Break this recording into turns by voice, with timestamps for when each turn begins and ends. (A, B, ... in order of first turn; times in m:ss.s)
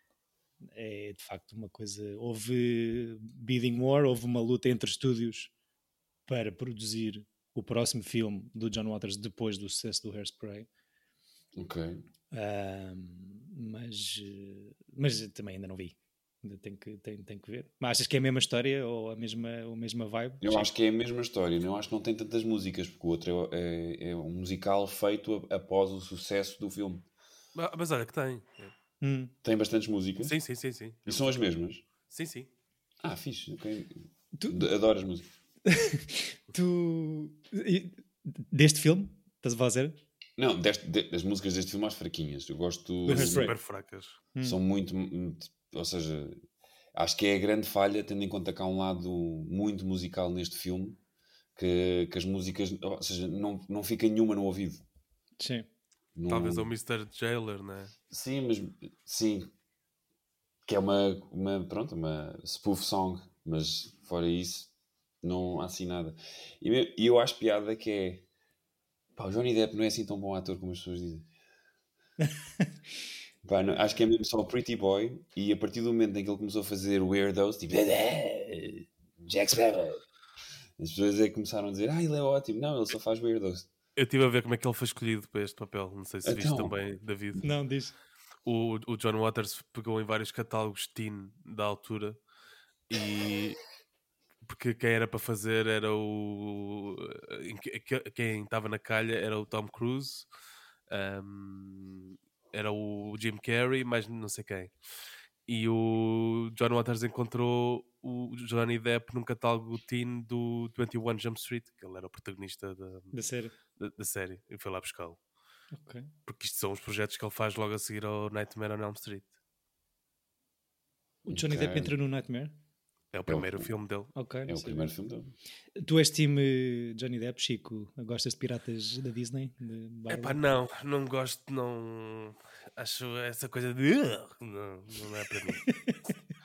0:00.7-0:05.5 A
0:06.3-0:10.7 A
0:11.6-0:12.0 B
0:12.3-0:20.7 A
0:20.4-0:27.0 B
0:27.5-0:28.7 C
0:29.0-0:29.3 A
0:29.4-0:30.4 B
0:30.2-0:31.4 C
0:31.0-0:31.8 B
0:32.0-0:32.5 C
0:33.0-0:35.3 B
0:34.4-0:34.7 A
0:35.6-0:40.0 A
0:40.4-0:43.5 B
0:43.1-0:43.5 A
0:43.1-0:44.2 C
0:44.4-0:46.4 B
0:46.9-0:51.0 B
0:51.6-0:54.8 B
0:55.4-0:55.7 A
0:56.1-0:56.7 B
0:56.3-0:57.9 C
0:58.1-0:59.5 B
1:00.6-1:04.7 B
1:05.2-1:08.3 B
1:09.2-1:11.3 B
1:12.2-1:12.6 A
1:13.4-1:20.0 B
1:20.8-1:23.7 B
1:24.0-1:27.4 C
1:26.2-1:26.7 B
1:27.4-1:27.9 A
1:28.4-1:32.2 C
1:32.9-1:33.6 C
1:34.4-1:40.2 C
1:40.9-1:44.7 C
1:45.5-1:53.1 C
1:53.1-1:53.5 A
1:53.8-1:55.2 C
1:55.7-1:56.1 A
1:56.3-1:59.3 C
2:01.2-2:02.6 A
2:01.3-2:01.9 B
2:03.1-2:04.1 C
2:03.3-2:03.7 B
2:04.1-2:04.9 A
2:04.4-2:05.3 B
2:05.8-2:10.4 A
2:10.1-2:15.7 C
2:15.7-2:16.0 A